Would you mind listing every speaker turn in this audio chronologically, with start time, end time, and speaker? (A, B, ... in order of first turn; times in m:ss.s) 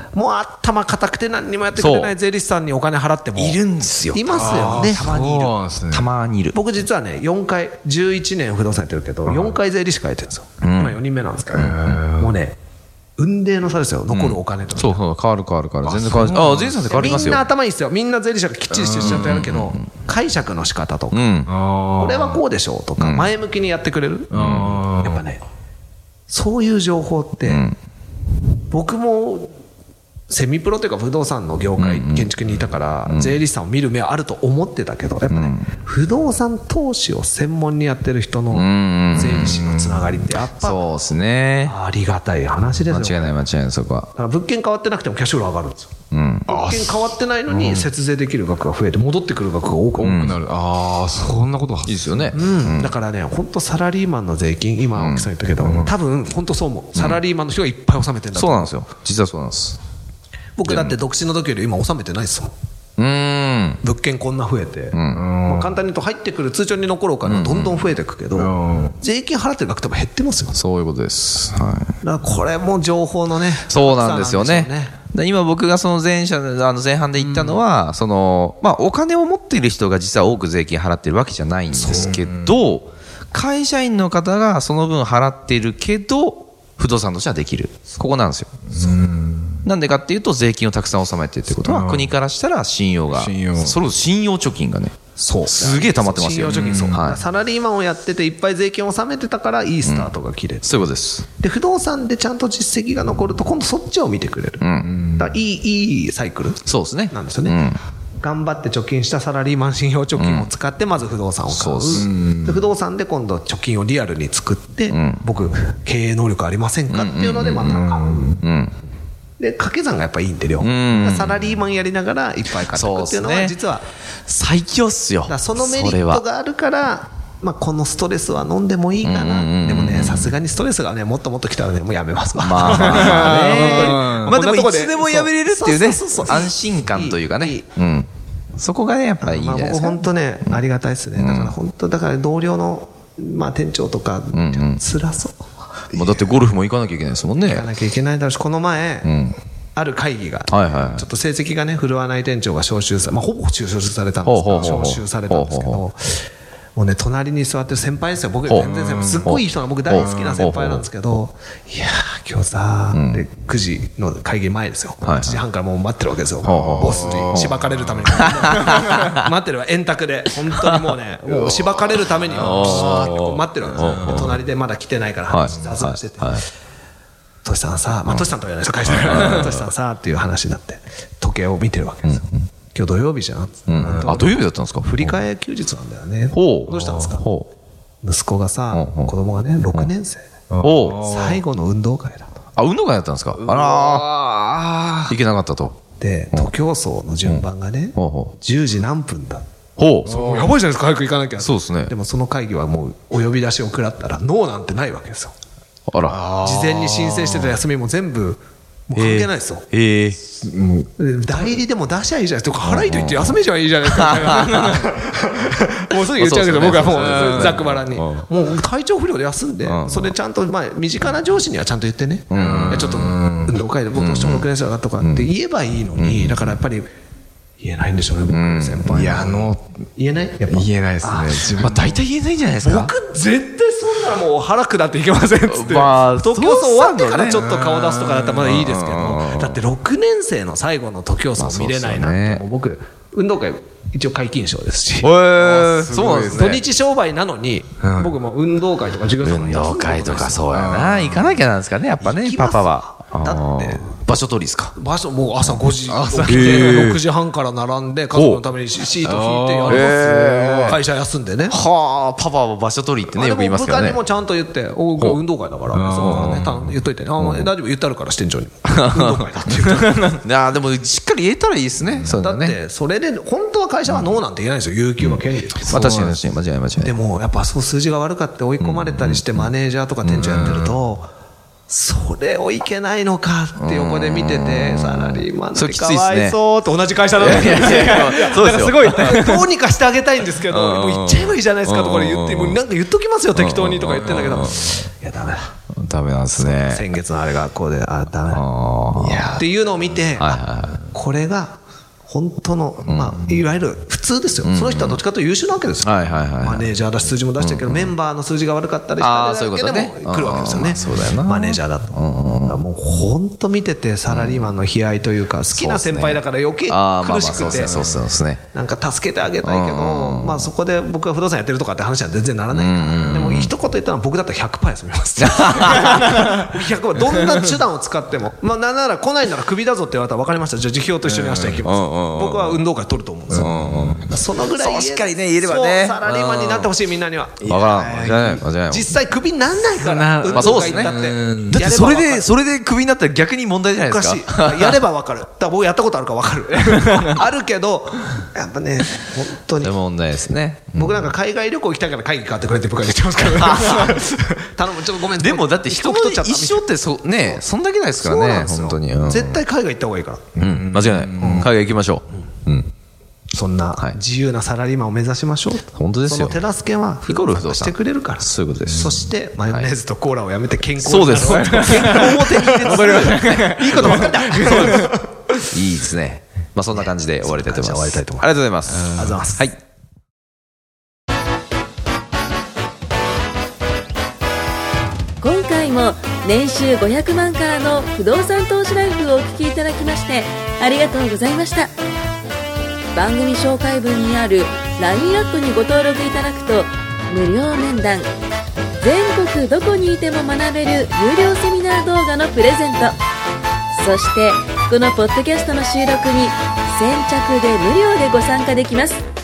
0:00.1-0:05.5 A
0:01.7-0:02.1 B
0:03.4-0:05.2 B
0:04.3-0:06.1 C
0:05.9-0:06.6 B
0:06.5-0:12.6 A
0:10.6-0:11.0 B
0:11.5-0:12.3 C
0:11.5-0:12.0 B
0:13.2-0:15.0 A
0:14.1-0:17.4 B
0:15.8-0:16.9 C
0:16.9-0:21.2 A
0:18.7-0:19.5 C
0:18.9-0:19.9 B
0:21.1-0:21.5 B
0:21.5-0:22.4 C
0:22.0-0:24.3 A
0:23.0-0:23.3 B
0:24.3-0:25.2 C
0:24.3-0:24.8 B
0:24.9-0:25.4 A
0:26.3-0:27.6 A
0:27.4-0:27.8 B
0:28.7-0:29.5 A
0:30.3-0:40.8 A
0:31.8-0:32.4 B
0:33.0-0:33.4 B
0:35.3-0:35.7 B
0:38.5-0:39.6 B
0:39.4-0:40.0 C
0:40.5-0:41.8 B
0:41.6-0:43.4 A
0:42.9-0:44.1 B
0:44.1-0:45.9 A
0:46.1-0:46.5 B
0:46.5-0:50.3 A
0:46.5-0:47.8 C
0:50.0-0:52.3 C
0:50.0-0:50.4 B
0:51.8-0:52.9 B
0:52.3-0:58.7 A
0:55.0-0:55.3 B
0:55.6-0:55.9 C
0:56.9-0:57.2 B
0:58.3-0:59.8 B
1:00.6-1:02.5 A
1:00.6-1:01.0 B
1:03.0-1:03.8 B
1:03.8-1:10.6 A
1:04.9-1:05.2 B
1:05.1-1:05.6 C
1:07.2-1:07.9 B
1:08.4-1:09.0 C
1:10.5-1:11.9 B
1:12.0-1:14.9 A
1:13.7-1:28.8 B
1:21.7-1:22.2 A
1:21.9-1:22.5 C
1:28.7-1:29.6 C
1:29.6-1:37.2 B
1:31.6-1:32.1 C
1:33.1-1:33.8 C
1:35.2-1:40.8 A
1:36.5-1:37.0 C
1:39.8-1:40.1 B
1:40.6-1:41.3 B
1:41.4-1:47.6 A
1:44.6-1:44.9 B
1:44.9-1:45.2 C
1:46.6-1:47.8 B
1:48.2-1:58.4 A
1:50.1-1:50.5 B
1:51.5-1:52.1 B
1:51.9-1:52.6 C
1:54.9-1:55.2 B
1:56.9-1:57.9 B
1:57.8-1:58.4 C
1:58.4-1:58.8 B
1:59.4-2:03.9 A
2:00.6-2:01.5 B
2:02.7-2:03.6 B
2:04.2-2:06.2 B
2:05.2-2:17.6 A
2:09.0-2:10.3 B
2:12.4-2:20.6 B
2:12.8-2:14.3 C
2:19.2-2:25.4 A
2:21.1-2:21.5 B
2:24.3-2:24.8 B
2:25.9-2:26.3 A
2:25.9-2:27.7 B
2:27.4-2:29.1 A
2:29.0-2:29.4 B
2:29.8-2:56.4 A
2:30.5-2:31.0 B
2:34.2-2:35.8 B
2:38.5-2:40.9 B
2:38.7-2:39.2 C
2:42.9-2:43.2 B
2:45.0-2:45.4 B
2:46.4-2:49.2 B
2:46.5-2:49.1 C
2:52.3-2:54.4 B
2:52.4-2:53.2 C
2:53.7-2:54.3 C
2:55.3-2:56.4 B
2:57.4-3:07.2 A
2:58.9-2:59.7 B
3:02.0-3:02.5 B
3:03.7-3:05.2 B
3:06.3-3:07.5 B
3:08.0-3:10.3 A
3:08.7-3:09.1 B
3:10.5-3:11.4 C
3:10.6-3:11.1 B
3:10.9-3:12.3 A
3:12.6-3:14.2 B
3:13.4-3:15.1 C
3:15.1-3:15.8 B
3:16.0-3:19.4 A
3:17.2-3:18.4 B
3:19.8-3:20.2 B
3:20.1-3:20.5 C
3:20.1-3:25.3 A
3:21.4-3:21.9 B
3:25.9-3:26.2 B
3:26.1-3:27.6 C
3:26.4-3:29.6 A
3:28.9-3:30.2 B
3:30.3-3:30.9 C
3:31.0-3:46.9 A
3:32.6-3:34.9 B
3:36.0-3:38.3 B
3:36.9-3:37.7 C
3:39.6-3:40.1 B
3:42.3-3:43.2 B
3:42.3-3:43.5 C
3:43.9-3:44.5 B
3:45.0-3:45.3 B
3:45.9-3:46.6 B
3:47.6-3:51.6 A
3:48.3-3:49.3 B
3:48.9-3:49.6 C
3:50.5-3:52.0 C
3:51.4-3:52.9 B
3:52.6-4:05.1 A
3:55.4-3:57.5 B
3:57.4-3:58.5 C
3:58.4-3:59.6 B
4:01.4-4:02.4 B
4:05.0-4:06.6 B
4:05.4-4:06.6 C
4:06.3-4:10.5 A
4:07.8-4:08.1 C
4:09.2-4:14.8 B
4:10.5-4:11.2 C
4:12.0-4:14.0 A
4:14.8-4:21.6 A
4:15.8-4:17.0 C
4:16.2-4:17.0 B
4:18.1-4:18.4 B
4:19.0-4:20.8 C
4:19.7-4:20.8 B
4:21.5-4:24.0 B
4:23.1-4:30.2 A
4:25.7-4:26.7 C
4:26.0-4:26.4 B
4:27.2-4:27.5 B
4:28.6-4:32.6 B
4:32.2-4:35.9 A
4:33.9-4:34.2 B
4:35.0-4:36.9 B
4:35.7-4:36.2 C
4:36.8-4:41.1 A
4:38.6-4:39.5 B
4:40.2-4:40.7 C
4:41.7-4:55.5 A
4:43.6-4:46.4 B
4:47.1-4:49.4 B
4:47.6-4:49.2 C
4:50.4-4:52.6 B
4:53.3-4:54.8 B
4:54.1-4:54.8 C
4:55.7-4:56.8 B
4:56.4-4:58.4 A
4:58.3-4:59.4 B
4:59.0-4:59.4 C
4:59.4-5:17.8 A
5:00.2-5:00.9 B
5:02.8-5:03.4 B
5:04.4-5:05.0 B
5:05.8-5:06.7 B
5:07.4-5:07.9 B
5:09.0-5:12.6 B
5:14.1-5:14.5 B
5:15.5-5:18.4 B
5:17.6-5:18.0 C
5:18.5-5:42.3 A
5:19.4-5:20.5 B
5:22.5-5:23.5 B
5:25.2-5:26.5 B
5:31.0-5:31.6 C
5:31.6-5:32.6 B
5:33.3-5:34.1 C
5:33.4-5:36.0 B
5:36.1-5:36.7 C
5:37.4-5:38.4 C
5:37.4-5:38.9 B
5:39.8-5:41.6 C
5:40.2-5:44.8 B
5:43.9-5:49.7 A
5:49.6-5:51.1 B
5:50.7-5:57.4 A
5:53.4-5:54.0 B
5:55.1-5:59.4 B
5:58.0-6:00.4 A
6:00.4-6:02.7 B
6:00.4-6:01.4 C
6:01.2-6:01.4 A
6:03.3-6:15.1 A
6:05.7-6:06.4 B
6:07.1-6:09.7 B
6:10.8-6:14.9 B
6:11.1-6:14.9 C
6:15.5-6:19.6 B
6:16.8-6:18.3 A
6:18.9-6:19.4 A
6:25.2-6:31.7 D
6:32.9-6:38.1 D
6:38.8-6:43.0 D
6:43.7-6:49.0 D